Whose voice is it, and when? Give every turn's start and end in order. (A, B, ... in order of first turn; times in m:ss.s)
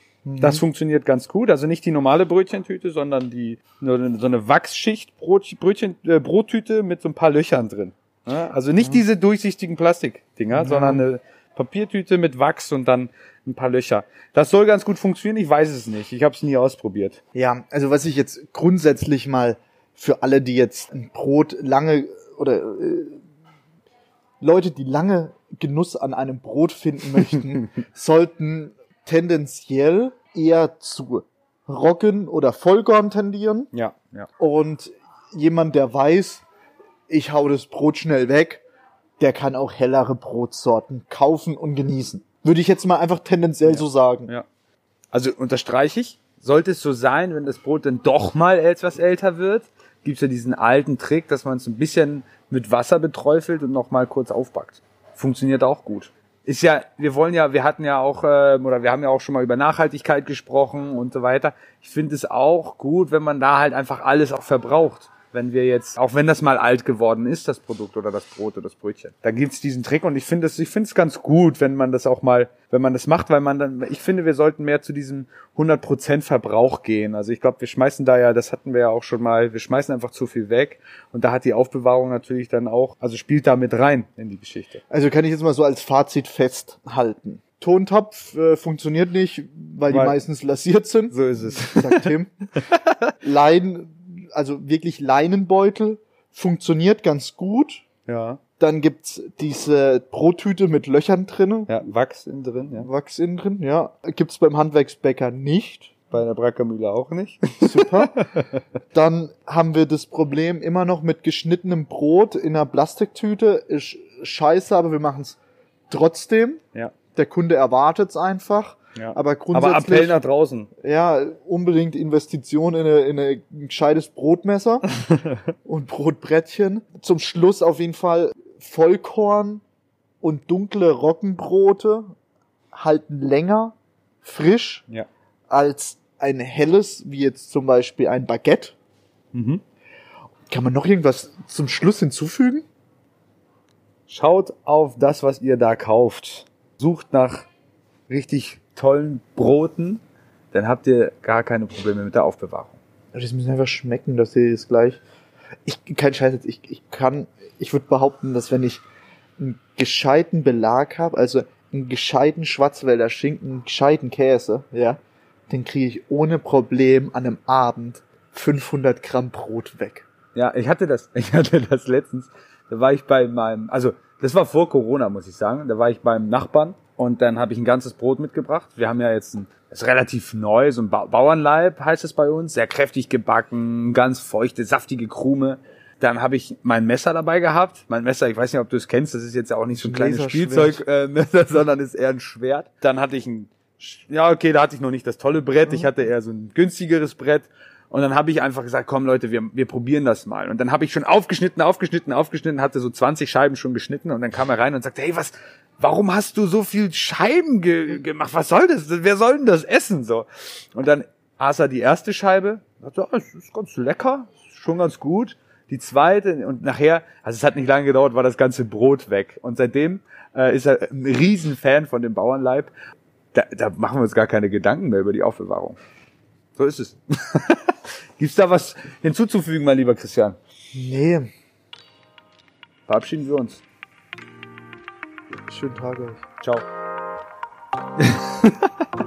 0:00.2-0:00.6 A
0:00.4-0:17.2 B
0:10.5-0:11.0 A
0:17.3-0:23.2 A
0:24.4-0:33.7 A
0:33.7-0:34.3 B
0:34.4-0:36.4 A
0:37.1-0:38.6 A
0:39.2-0:44.3 A
0:43.6-0:44.4 B
0:45.1-1:24.8 B
1:24.9-1:32.3 A
1:29.9-1:30.2 B
1:31.1-1:32.1 B
1:33.2-1:37.8 A
1:38.0-1:38.4 B
1:38.6-1:41.7 A
1:41.7-1:42.9 B
1:42.8-1:46.0 A
1:46.1-1:48.6 B
1:47.6-1:48.2 A
1:48.9-1:55.4 A
1:55.9-1:56.6 A
1:57.1-2:00.2 A
1:59.0-2:00.7 B
2:00.8-2:04.8 A
2:04.9-2:05.4 B
2:05.6-2:09.6 A
2:10.2-2:12.1 A
2:12.7-2:14.8 A
2:15.5-2:18.8 A
2:19.3-2:19.6 B
2:20.5-2:22.6 A
2:24.1-2:27.5 B
2:28.1-2:32.8 B
2:33.1-2:35.0 A
2:35.6-2:38.8 A
2:39.4-2:50.1 A
2:50.3-3:42.7 B
3:09.7-3:10.8 A
3:15.6-3:15.9 A
3:43.3-3:45.8 B
3:46.6-3:50.4 B
3:50.7-3:51.3 A
3:52.9-3:53.6 B
3:55.5-3:56.2 A
3:56.4-3:56.6 B
3:58.0-3:58.5 B